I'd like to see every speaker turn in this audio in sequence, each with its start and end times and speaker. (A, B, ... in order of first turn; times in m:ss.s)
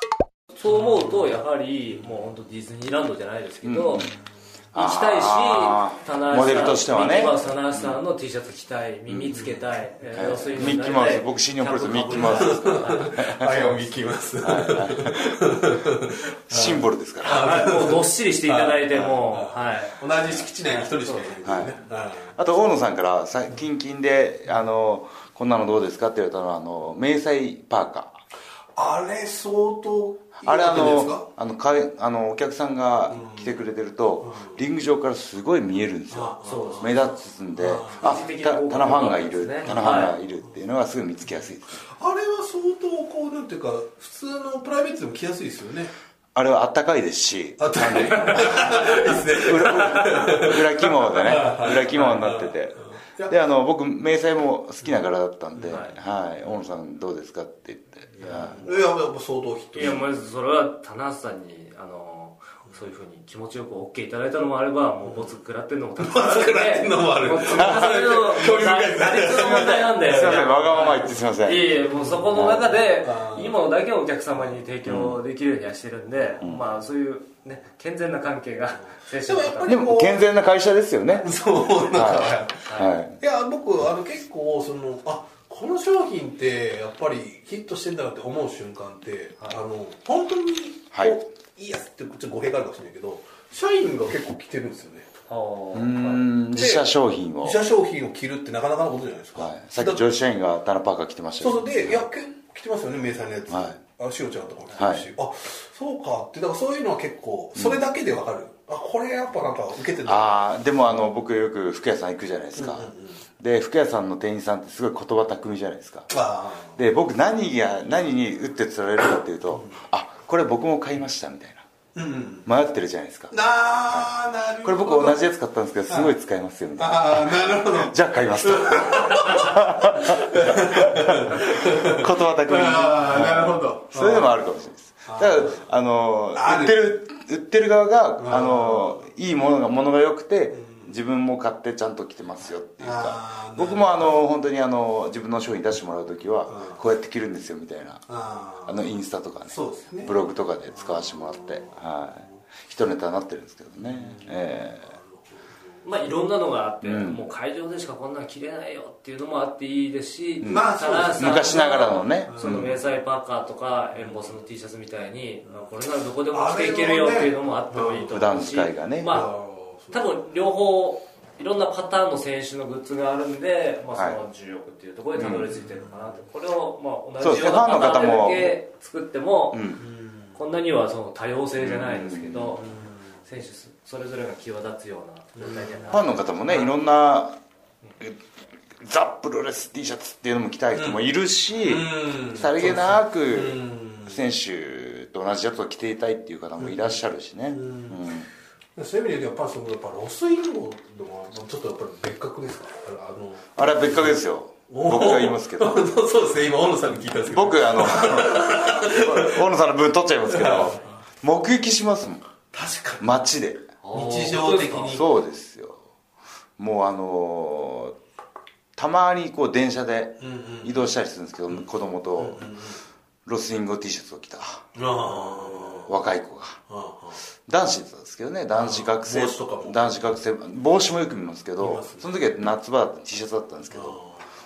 0:00.6-0:04.1 A
0:00.7-0:01.3 B
0:03.6-0:04.1 C
0:04.7-0:08.0 C
0:04.7-0:13.2 A
0:09.1-0:09.3 C
0:09.3-0:09.6 B
0:10.1-0:13.9 C
0:12.1-0:22.4 B
0:14.4-0:15.5 C
0:16.5-0:17.6 C
0:17.2-0:20.0 A
0:18.9-0:19.2 C
0:20.8-0:21.3 A
0:21.4-0:21.8 C
0:22.4-0:28.2 C
0:28.8-0:31.3 B
0:30.4-0:41.8 C
0:33.1-0:33.6 B
0:34.2-0:34.6 B
0:36.1-0:38.2 B
0:36.4-0:37.0 A
0:38.0-0:40.1 A
0:39.6-0:39.9 B
0:41.8-0:45.9 B
0:46.3-0:58.7 C
0:47.6-0:53.4 B
0:55.7-0:56.0 A
0:58.2-1:00.0 B
0:58.2-0:58.7 A
0:59.7-1:19.8 A
1:05.0-1:05.3 B
1:06.0-1:09.9 B
1:07.6-1:08.0 C
1:09.3-1:11.7 C
1:11.9-1:13.5 B
1:12.3-1:12.7 C
1:14.8-1:15.2 C
1:19.2-1:20.2 B
1:19.7-1:21.3 C
1:21.2-1:35.1 B
1:21.9-1:23.2 C
1:22.6-1:22.9 A
1:35.3-1:36.3 A
1:35.7-1:37.6 C
1:36.5-1:36.9 B
1:37.4-1:40.0 B
1:39.4-1:42.1 C
1:41.4-1:50.6 B
1:43.5-1:43.8 C
1:44.8-1:45.1 C
1:47.6-1:47.8 C
1:50.0-1:56.1 C
1:52.6-1:53.2 B
1:56.1-1:56.8 B
1:56.8-2:01.6 C
2:01.9-2:02.5 B
2:02.4-2:03.3 C
2:03.3-2:05.3 B
2:03.9-2:28.0 C
2:05.9-2:06.1 B
2:06.8-2:14.3 B
2:15.1-2:15.7 B
2:16.3-2:16.8 B
2:18.2-2:19.0 B
2:20.6-2:20.9 B
2:22.8-2:24.0 B
2:26.5-2:26.8 B
2:28.1-2:30.1 B
2:28.6-2:34.9 C
2:30.7-2:32.3 B
2:33.8-2:35.8 B
2:35.8-2:49.3 A
2:36.8-2:37.2 C
2:40.4-2:42.8 C
2:40.4-2:42.7 B
2:44.0-2:44.4 B
2:46.3-2:48.2 B
2:48.1-2:49.1 C
2:49.0-2:50.1 B
2:49.9-2:59.8 A
2:55.2-2:55.5 C
2:55.5-2:56.2 B
2:57.2-2:58.6 C
2:59.5-2:59.8 C
2:59.8-3:00.4 B
3:00.3-3:02.7 A
3:01.6-3:02.6 C
3:02.6-3:03.2 B
3:03.2-3:06.2 A
3:05.4-3:06.7 B
3:05.9-3:07.4 C
3:08.7-3:18.3 C
3:10.7-3:11.0 B
3:11.6-3:14.2 B
3:16.6-3:16.9 B
3:17.5-3:18.1 B
3:18.8-3:29.5 B
3:23.6-3:25.8 C
3:27.3-3:32.3 C
3:30.3-3:30.9 B
3:32.5-3:33.1 B
3:33.0-3:33.6 C
3:33.8-3:35.0 A
3:33.9-3:35.1 B
3:34.8-3:35.8 C
3:36.6-3:38.0 C
3:38.8-3:42.5 C
3:40.2-3:40.9 B
3:42.2-3:42.8 B
3:43.2-3:44.6 C
3:44.7-3:46.0 B
3:45.2-3:46.6 C
3:46.7-3:47.2 B
3:47.5-3:54.0 C
3:48.5-3:50.0 B
3:51.6-3:52.2 B
3:53.7-3:54.2 B